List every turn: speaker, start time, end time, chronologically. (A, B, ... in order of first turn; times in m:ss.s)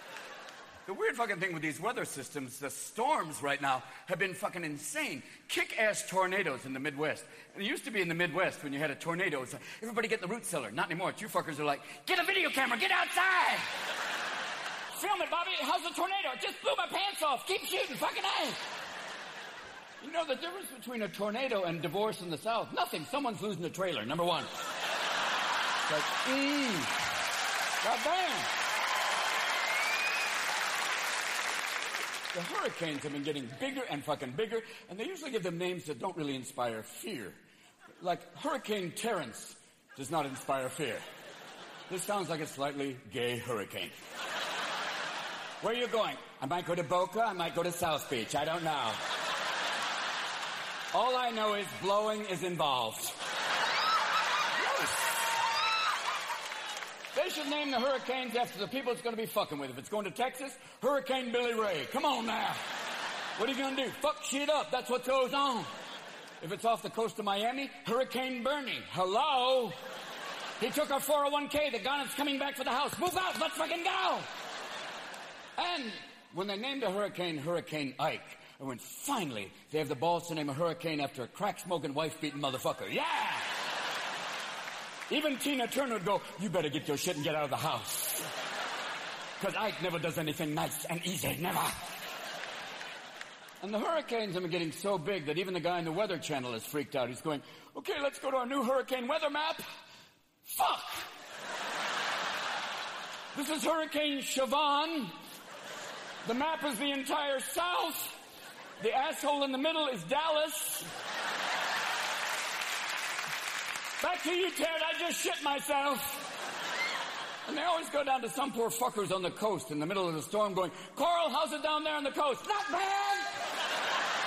0:00.8-0:13.7 A
0:14.9-0:18.6 A
0:20.0-0:24.5 A
0:25.9-0:26.9 A
0:27.8-0:28.5 A
0:32.3-0:37.4 A
0:38.0-0:41.0 A
0:41.9-0:43.9 A
0:45.6-0:49.0 A
0:50.9-0:53.1 A
0:54.6-0:55.3 A
0:57.1-1:02.6 A
1:03.4-1:05.7 A
1:06.4-1:09.8 A
1:10.6-1:14.3 A
1:15.6-1:23.5 A
1:25.1-1:28.3 A
1:29.4-1:31.8 A
1:33.6-1:39.7 A
1:40.4-1:41.1 A
1:43.3-1:45.2 A
1:46.2-1:48.1 A
1:48.8-1:50.9 A
1:54.0-1:56.2 A
1:57.4-2:03.3 A